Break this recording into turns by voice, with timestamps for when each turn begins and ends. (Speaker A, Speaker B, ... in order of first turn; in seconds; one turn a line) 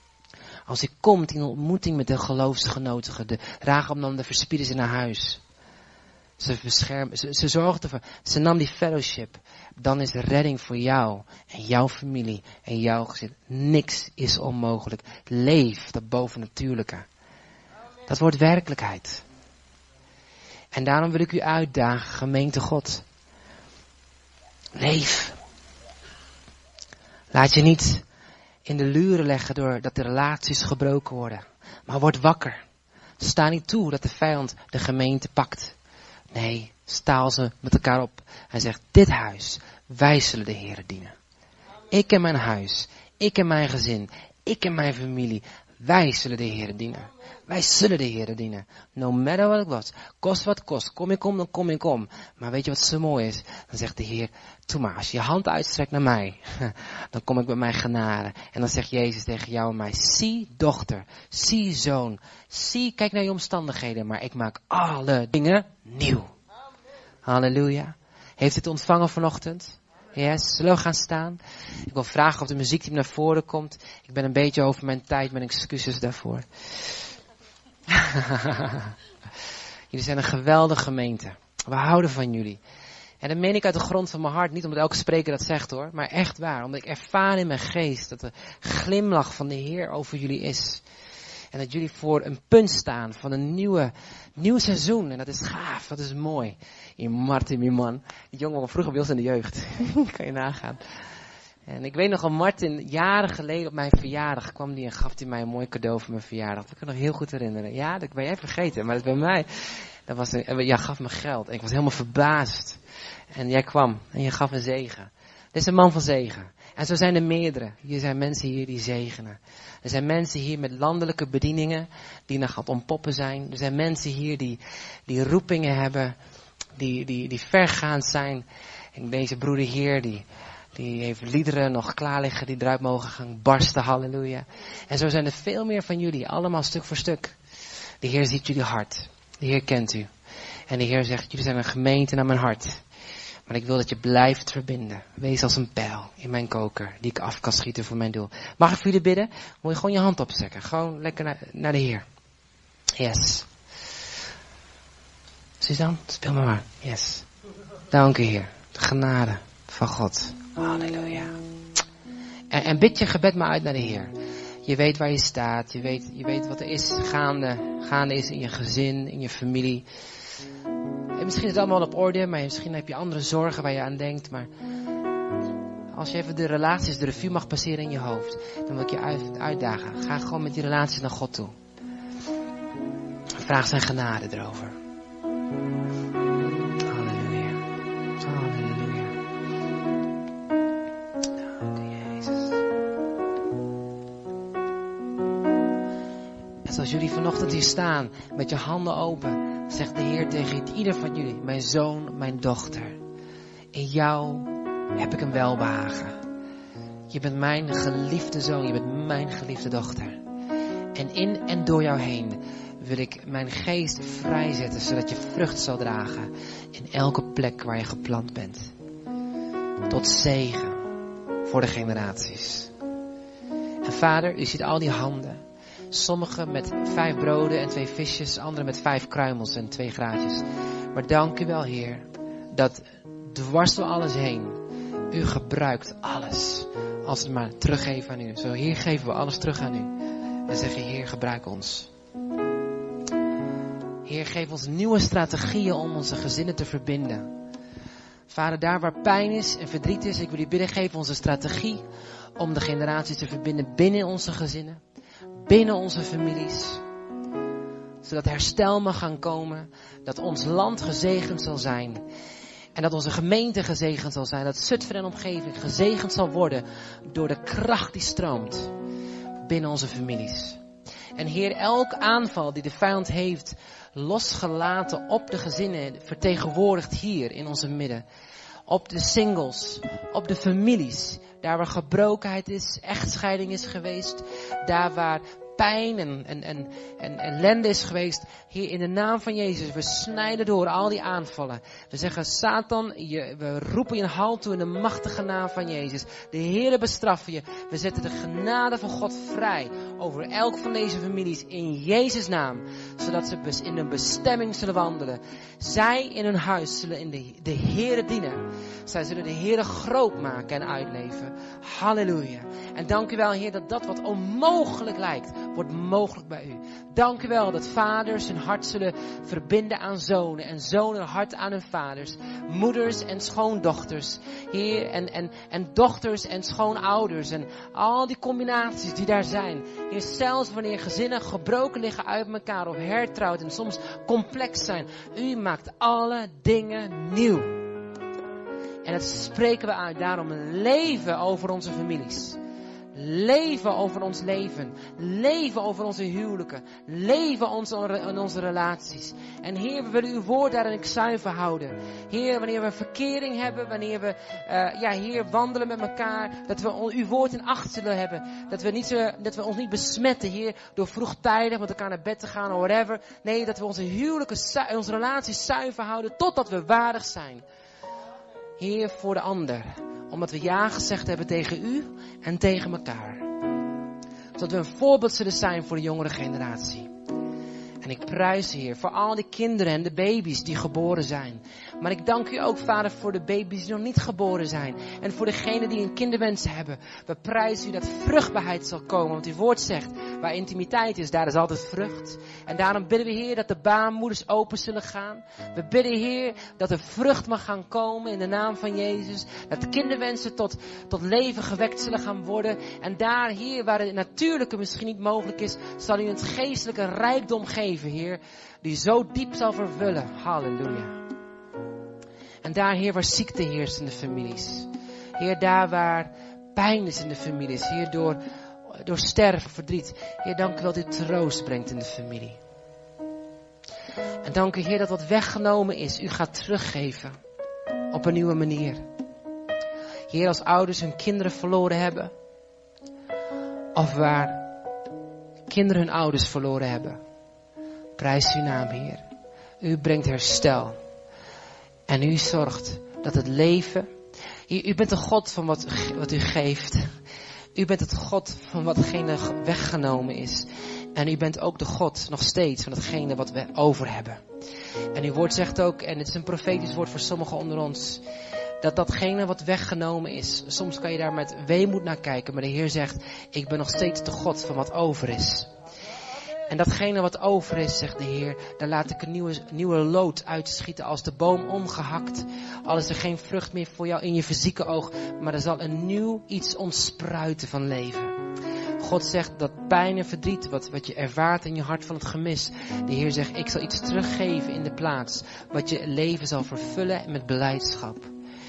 Speaker A: 0.7-5.4
Speaker A: 6.4-17.1
Speaker A: 18.1-19.2
Speaker A: 20.7-23.1
Speaker A: 24.8-25.4
Speaker A: 27.3-28.1
Speaker A: 28.7-32.6
Speaker A: 33.2-35.8
Speaker A: 36.3-41.1
Speaker A: 41.9-66.3
Speaker A: 67.2-76.5
Speaker A: 77.9-78.9
Speaker A: 79.9-82.6
Speaker A: 83.2-90.8
Speaker A: 91.5-100.8
Speaker A: 101.7-112.8
Speaker A: 113.3-126.2
Speaker A: 126.8-137.4
Speaker A: 138.0-140.1
Speaker A: 140.7-142.8
Speaker A: 143.5-152.1
Speaker A: 153.0-153.5
Speaker A: 155.6-157.3
Speaker A: 157.9-161.3
Speaker A: 162.5-164.1
Speaker A: 164.7-169.8
Speaker A: 171.2-174.5
Speaker A: 175.9-181.5
Speaker A: 183.4-184.8
Speaker A: 186.8-187.7
Speaker A: 188.2-189.2
Speaker A: 191.4-192.6
Speaker A: 196.7-203.0
Speaker A: 203.7-206.2
Speaker A: 207.1-210.2
Speaker A: 210.9-218.7
Speaker A: 219.9-220.8
Speaker A: 221.5-222.7
Speaker A: 223.8-225.4
Speaker A: 225.9-234.6
Speaker A: 235.1-239.9
Speaker A: 240.5-241.9
Speaker A: 244.1-247.3
Speaker A: 248.3-251.8
Speaker A: 252.4-254.8
Speaker A: 255.4-256.8
Speaker A: 258.0-262.0
Speaker A: 262.8-268.7
Speaker A: 269.4-270.6
Speaker A: 271.2-278.0
Speaker A: 278.7-337.6
Speaker A: 338.9-342.4
Speaker A: 342.9-367.4
Speaker A: 368.6-373.3
Speaker A: 374.4-376.9
Speaker A: 377.8-411.0
Speaker A: 412.4-418.2
Speaker A: 418.7-422.4
Speaker A: 424.2-427.2
Speaker A: 427.9-428.8
Speaker A: 430.1-432.1
Speaker A: 433.8-434.5
Speaker A: 435.5-437.0
Speaker A: 438.0-439.0
Speaker A: 439.6-440.8
Speaker A: 441.9-443.9
Speaker A: 444.5-446.9
Speaker A: 447.6-454.2
Speaker A: 454.9-458.0
Speaker A: 458.6-465.5
Speaker A: 466.5-478.1
Speaker A: 478.8-488.1